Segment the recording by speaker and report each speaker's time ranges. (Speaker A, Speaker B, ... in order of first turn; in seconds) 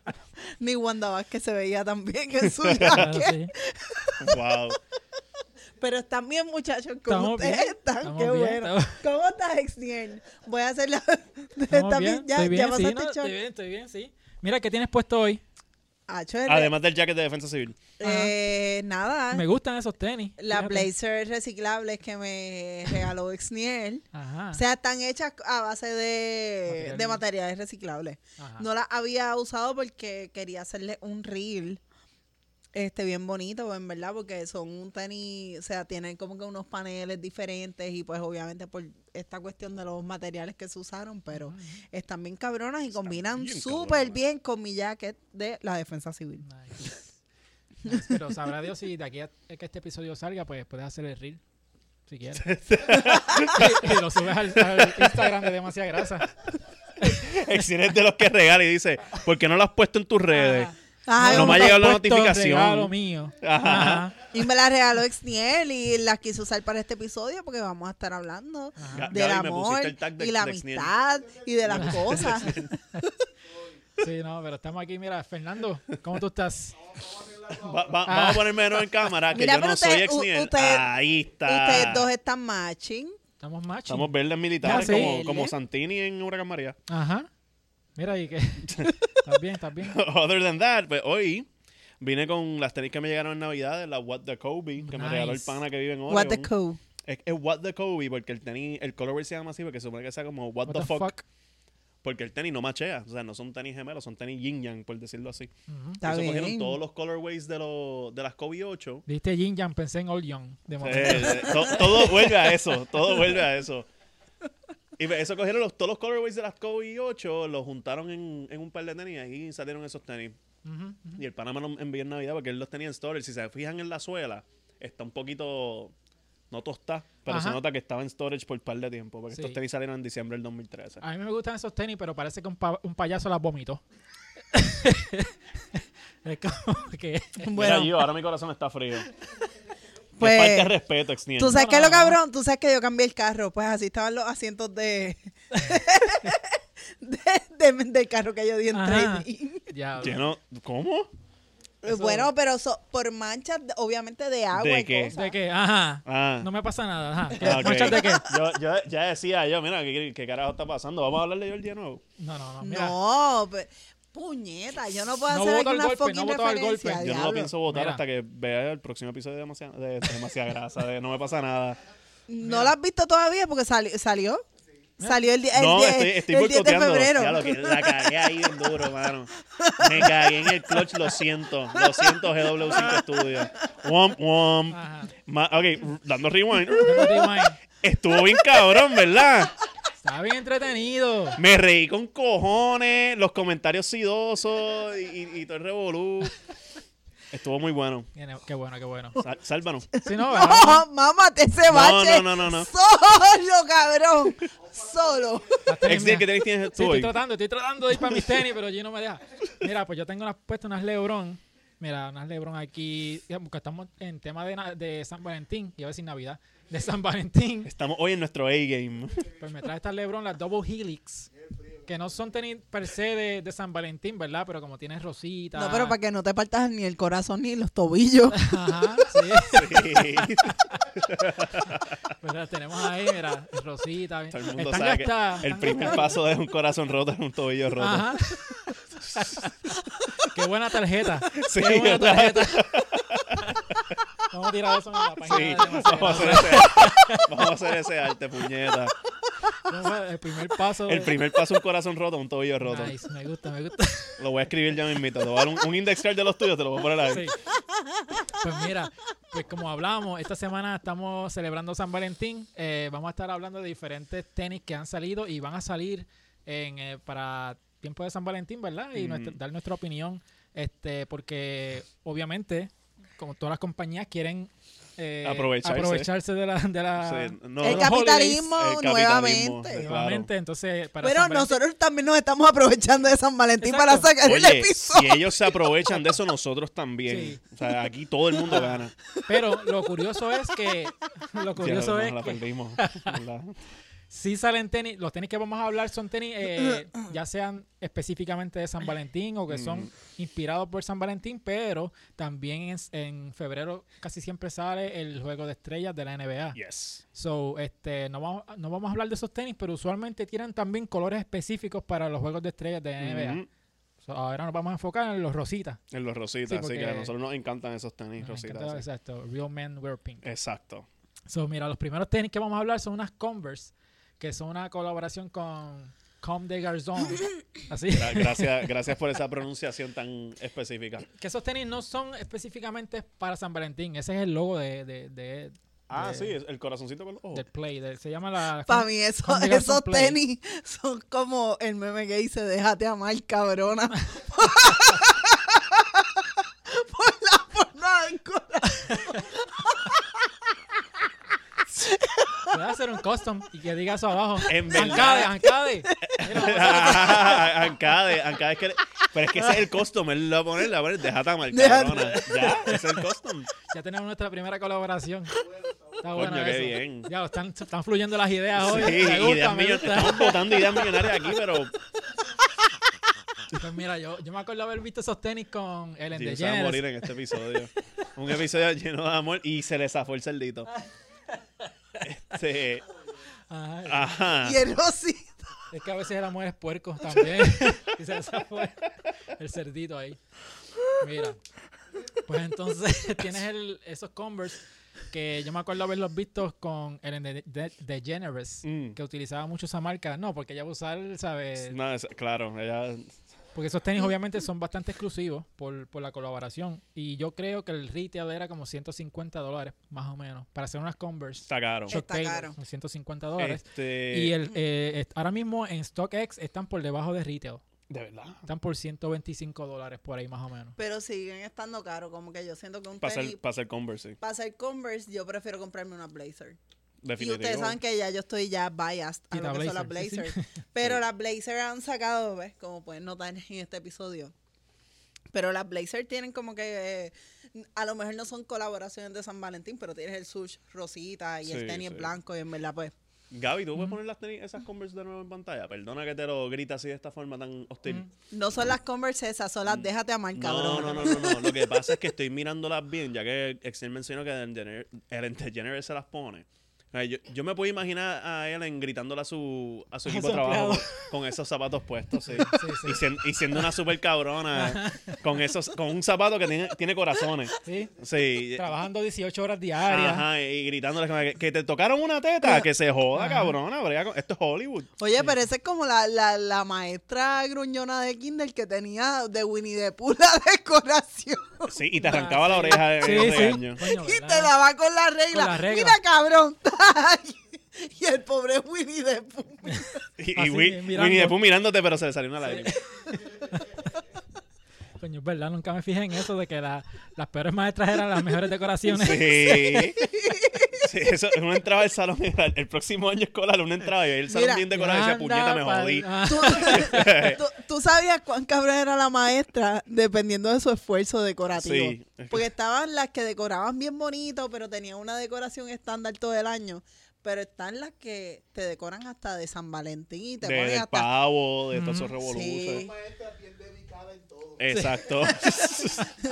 Speaker A: 0.6-4.4, 5.8-13.3, 16.1-16.7, 18.0-19.5, 20.4-31.8, 32.8-46.4, 53.1-53.4, 61.1-61.8, 64.3-72.8, 79.3-80.9, 81.5-83.2, 84.6-85.5, 96.1-96.8, 106.0-106.8, 137.4-138.1, 140.2-140.8, 141.4-149.7, 151.8-155.4, 157.4-158.4, 162.6-167.5, 172.3-174.4, 175.0-178.9, 179.4-181.1, 181.7-183.1, 186.7-187.2, 188.3-189.0, 199.9-205.7, 225.6-228.6, 277.6-279.9, 281.0-285.7, 338.7-350.1, 351.7-352.5, 355.9-356.2, 356.8-357.5, 361.5-362.6, 384.4-385.6, 411.9-412.6, 420.8-423.4, 424.2-426.6, 427.2-434.3, 435.3-442.9, 448.3-451.8, 475.0-481.8, 483.3-490.0, 500.2-500.8, 504.3-504.7, 506.2-521.1, 522.2-522.9
Speaker B: 2.4-3.0, 4.2-4.8, 16.5-17.8, 42.9-44.2, 52.4-54.0, 54.5-55.3, 57.0-60.7, 61.3-64.1, 68.9-71.0, 71.7-72.7, 77.6-82.1, 83.9-86.8, 88.7-88.9, 89.8-91.5, 92.0-96.5, 97.0-101.1, 102.0-109.0, 110.8-113.9, 115.0-120.4, 121.2-126.0, 126.5-131.0, 137.5-139.1, 140.2-141.6, 150.0-151.1, 154.5-155.2, 156.1-156.5, 157.4-162.0, 167.0-171.8, 175.5-189.6, 191.4-196.4, 197.3-198.1, 199.2-199.9, 201.7-202.7, 205.8-207.2, 217.7-219.3, 229.5-232.0, 234.3-238.3, 239.0-239.4, 241.3-243.6, 245.2-248.9, 250.8-252.9, 254.2-257.3, 268.9-269.4, 275.2-276.1, 277.0-280.3, 284.2-288.9, 291.6-293.6, 299.5-299.9, 306.5-307.0, 313.0-313.5, 315.9-318.9, 320.2-320.9, 327.9-331.1, 335.9-337.4, 354.4-355.3, 356.0-363.5, 366.1-367.1, 368.6-371.7, 376.1-380.7, 382.0-382.9, 383.9-384.6, 398.6-399.0, 401.6-403.2, 411.5-411.9, 413.4-414.4, 417.9-418.5, 423.0-424.2, 427.0-427.8, 441.4-442.1, 443.3-448.1, 449.7-468.7, 469.9-474.9, 481.7-483.8, 490.2-492.8, 498.9-500.1, 500.8-507.4, 511.6-512.5, 520.4-522.9, 524.6-526.1
Speaker C: 2.9-3.5, 7.1-9.0, 11.7-15.4, 18.0-18.4, 19.3-20.9, 24.1-24.6, 26.7-27.2, 28.4-28.7, 41.3-41.8, 46.4-47.1, 47.8-51.4, 52.1-52.5, 53.4-56.3, 60.3-64.3, 68.8-69.1, 71.7-72.4, 74.0-76.8, 78.1-78.5, 83.4-85.2, 86.9-87.3, 88.0-90.0, 94.8-95.6, 100.7-101.2, 105.7-106.0, 109.1-112.2, 120.6-121.2, 127.3-127.6, 129.3-129.6, 131.0-133.8, 134.5-137.5, 141.4-142.2, 145.5-145.8, 148.7-150.2, 151.9-152.3, 155.2-158.3, 162.2-162.9, 165.3-168.0, 172.4-172.8, 184.7-185.1, 186.8-187.6, 190.0-191.4, 198.2-199.2, 200.0-200.8, 205.7-217.7, 219.4-221.3, 221.9-226.0, 228.3-230.5, 232.2-236.2, 237.8-239.5, 240.2-242.8, 243.4-243.7, 244.3-247.3, 249.7-251.1, 252.6-254.2, 257.1-257.4, 258.3-278.5, 279.8-281.5, 283.6-284.1, 287.1-287.4, 288.5-293.2, 294.1-306.6, 307.1-313.4, 314.0-315.8, 316.5-317.1, 318.2-320.2, 321.3-328.7, 331.2-336.3, 337.3-340.2, 352.5-357.4, 363.7-365.3, 366.0-370.8, 373.5-377.0, 381.7-382.1, 383.5-384.2, 385.7-390.2, 391.0-391.4, 392.3-401.8, 403.6-417.6, 418.5-420.8, 429.3-430.4, 460.1-461.1, 462.3-463.6, 464.5-465.2, 467.6-467.9, 468.5-470.3, 473.1-473.6, 482.0-484.5, 485.3-486.0, 489.6-491.4, 492.4-492.8, 493.4-494.0, 495.0-500.0, 504.7-507.4, 521.7-522.1, 524.7-525.1
Speaker D: 71.2-71.9, 73.5-73.8, 76.7-78.1, 204.6-205.6, 221.3-222.2, 365.4-366.3, 522.7-526.0